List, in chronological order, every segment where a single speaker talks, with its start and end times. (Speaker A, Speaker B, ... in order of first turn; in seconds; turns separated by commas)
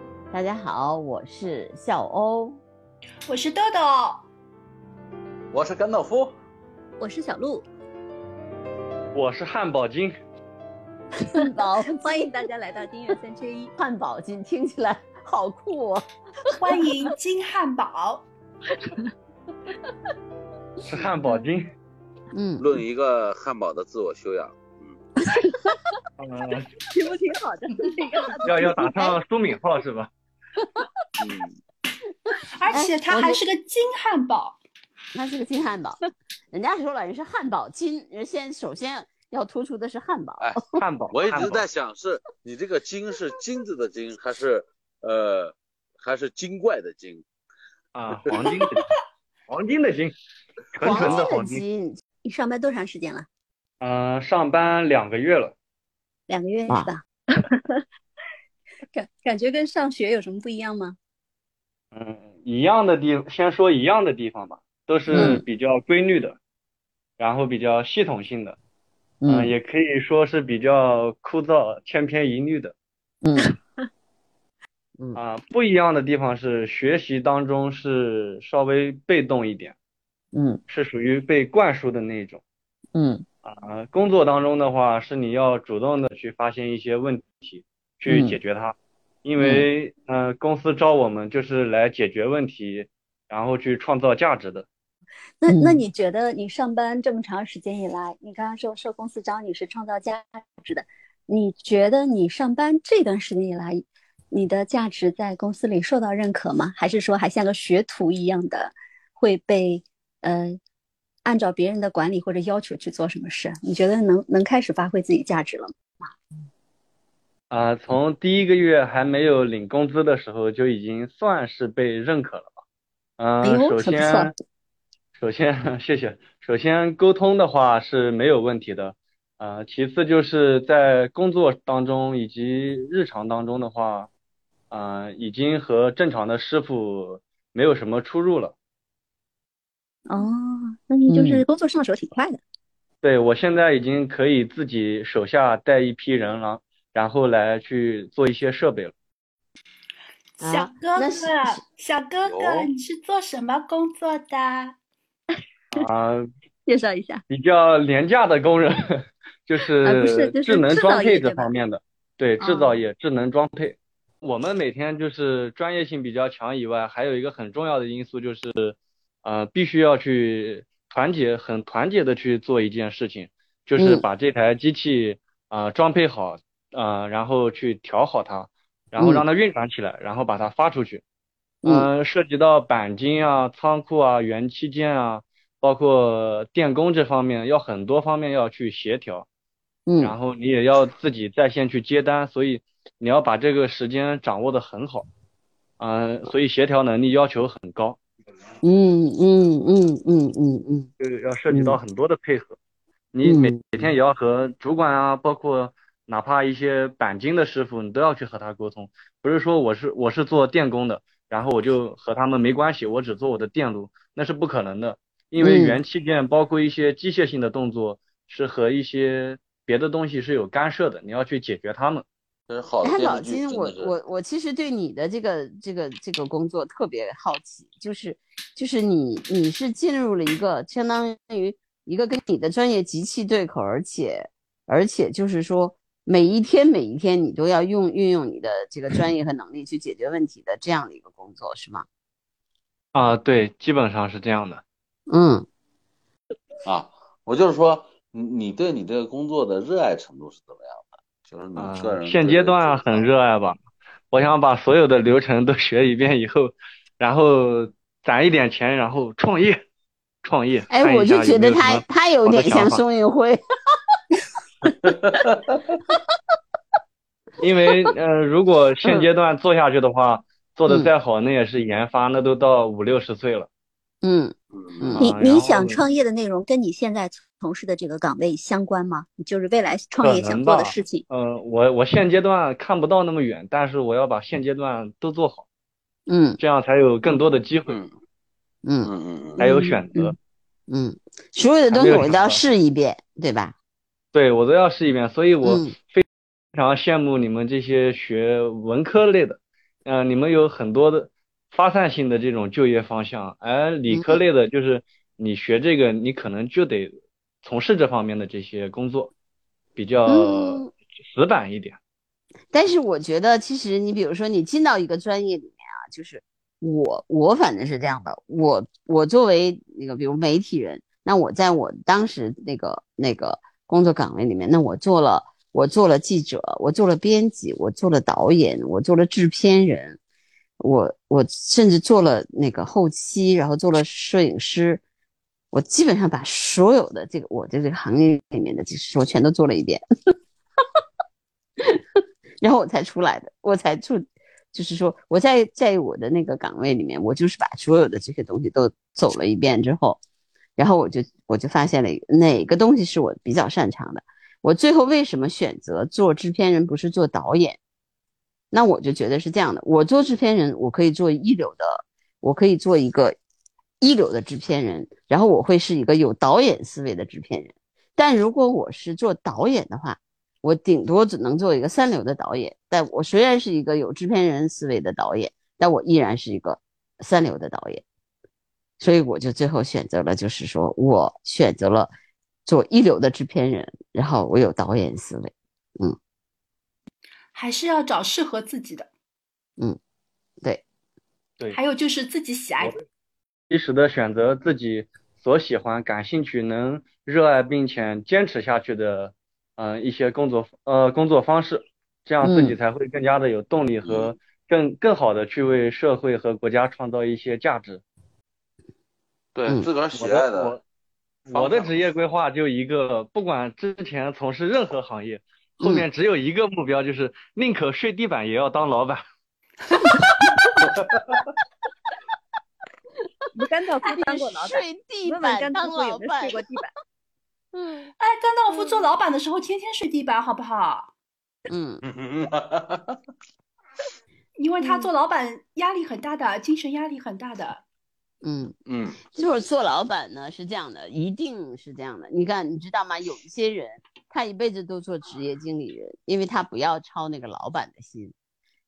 Speaker A: 0.3-2.6, Speaker B: 3.3-4.2, Speaker C: 5.5-6.3, Speaker D: 7.0-7.6, Speaker E: 9.1-10.1, Speaker A: 11.3-12.3, Speaker D: 11.4-13.7, Speaker A: 13.8-16.1, Speaker B: 16.6-18.3, Speaker E: 20.9-21.7, Speaker A: 22.3-22.7, Speaker C: 22.6-25.0, Speaker E: 26.2-26.7, Speaker A: 28.0-28.8, Speaker E: 28.4-30.1, Speaker C: 31.2-31.6, Speaker B: 32.5-34.6, Speaker A: 32.7-33.4, Speaker A: 35.1-40.6, Speaker E: 40.7-41.7, Speaker C: 41.1-47.2, Speaker E: 47.9-48.8, Speaker C: 48.1-48.5, Speaker E: 49.5-50.2, Speaker E: 50.7-51.6, Speaker A: 50.8-52.0, Speaker D: 52.2-53.3, Speaker E: 53.8-55.5, Speaker D: 56.3-57.7, Speaker D: 58.9-61.0, Speaker E: 61.9-66.4, Speaker A: 65.1-65.4, Speaker D: 65.1-65.4, Speaker E: 67.2-68.6, Speaker A: 69.2-69.5, Speaker E: 69.3-72.8, Speaker A: 73.2-73.5, Speaker E: 75.1-79.8, Speaker A: 80.3-80.6, Speaker E: 80.7-82.4, Speaker A: 82.9-83.2, Speaker E: 83.4-94.7, Speaker A: 88.1-88.4, Speaker A: 89.4-89.7, Speaker D: 95.4-110.6, Speaker A: 95.5-95.8, Speaker D: 111.2-115.7, Speaker E: 117.5-122.5, Speaker E: 123.2-124.3, Speaker D: 123.4-124.3, Speaker E: 125.2-134.1, Speaker E: 134.7-138.6, Speaker D: 140.1-142.4, Speaker A: 141.1-141.4, Speaker E: 143.0-148.9, Speaker A: 150.4-151.6, Speaker B: 150.4-154.8, Speaker C: 152.2-152.7, Speaker E: 155.7-156.3, Speaker D: 156.7-157.2, Speaker E: 157.3-181.0, Speaker D: 159.8-161.5, Speaker D: 162.4-162.8, Speaker A: 173.8-174.1, Speaker A: 179.0-179.2, Speaker A: 181.6-181.9, Speaker E: 181.7-189.3, Speaker A: 189.9-190.2, Speaker E: 190.0-195.1, Speaker E: 195.8-198.0, Speaker A: 198.6-200.9, Speaker E: 201.0-202.6, Speaker A: 201.5-201.8, Speaker E: 203.1-222.1, Speaker A: 203.2-203.9, Speaker A: 215.4-215.8, Speaker C: 222.5-224.0, Speaker A: 222.8-241.9, Speaker E: 242.9-244.6, Speaker A: 245.1-245.5, Speaker C: 246.7-253.1, Speaker E: 251.6-253.6, Speaker E: 254.1-259.6, Speaker E: 260.2-262.8, Speaker A: 260.7-263.4, Speaker C: 264.9-265.5, Speaker E: 267.4-273.5, Speaker A: 268.8-269.1, Speaker A: 270.6-270.9, Speaker A: 274.0-275.1, Speaker C: 274.5-275.0, Speaker E: 274.9-275.8, Speaker D: 275.0-281.0, Speaker E: 280.0-285.4, Speaker A: 286.1-286.4, Speaker E: 286.4-287.8, Speaker C: 287.7-287.9, Speaker A: 288.6-289.8, Speaker C: 288.8-289.5, Speaker E: 289.4-290.1, Speaker D: 289.6-290.1, Speaker A: 290.7-293.5, Speaker E: 291.7-292.4, Speaker E: 294.1-309.1, Speaker A: 295.4-295.7, Speaker A: 303.9-304.2, Speaker E: 309.8-311.8, Speaker A: 310.1-310.7, Speaker A: 312.5-330.0, Speaker A: 330.6-334.8, Speaker A: 335.5-339.8, Speaker A: 342.4-350.0, Speaker A: 350.6-357.6, Speaker A: 358.5-363.2, Speaker A: 363.8-377.8, Speaker A: 378.8-381.9, Speaker A: 382.4-386.0, Speaker B: 387.3-388.9, Speaker B: 391.5-392.8, Speaker E: 393.5-407.8, Speaker A: 402.2-402.6, Speaker C: 403.8-404.1, Speaker C: 409.3-410.6, Speaker E: 409.9-410.6, Speaker E: 411.3-419.0, Speaker C: 411.3-411.8, Speaker A: 415.6-415.9, Speaker B: 419.8-420.3, Speaker C: 420.8-421.2, Speaker F: 423.5-424.5, Speaker A: 423.8-426.6, Speaker F: 425.1-426.6, Speaker A: 427.5-427.9, Speaker B: 428.0-430.9, Speaker A: 428.5-428.8, Speaker A: 431.5-431.8, Speaker C: 431.8-433.0, Speaker B: 434.4-437.6, Speaker A: 438.2-438.5, Speaker C: 438.6-439.1, Speaker A: 439.1-448.1